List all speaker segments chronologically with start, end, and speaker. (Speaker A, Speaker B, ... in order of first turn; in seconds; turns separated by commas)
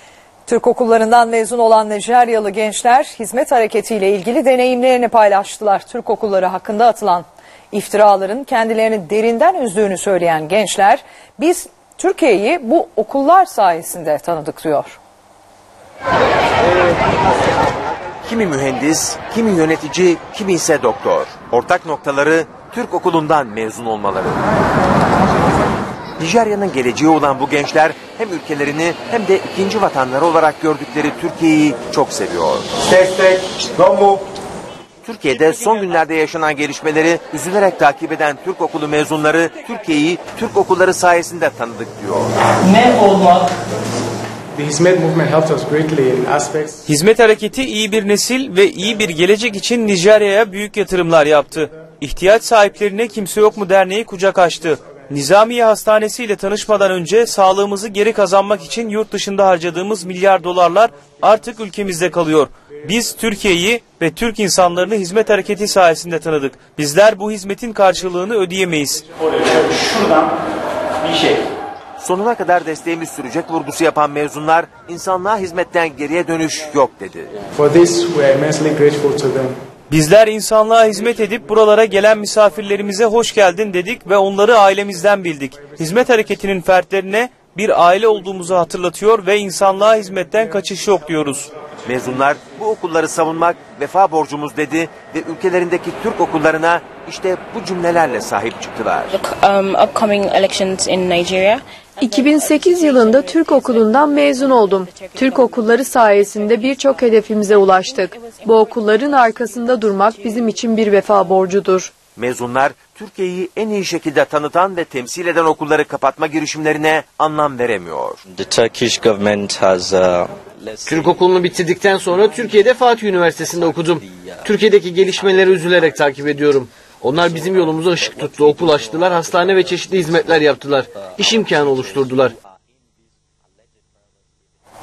Speaker A: 0.5-15.0, Speaker B: 18.2-24.4, Speaker B: 26.2-32.9, Speaker B: 35.0-42.3, Speaker C: 44.5-46.8, Speaker D: 46.9-69.0, Speaker B: 72.0-77.3, Speaker C: 77.5-79.5, Speaker D: 79.9-91.5, Speaker B: 91.8-99.2, Speaker E: 99.1-111.4, Speaker F: 102.0-111.9, Speaker B: 112.2-118.2, Speaker G: 118.3-121.0, Speaker H: 120.8-132.3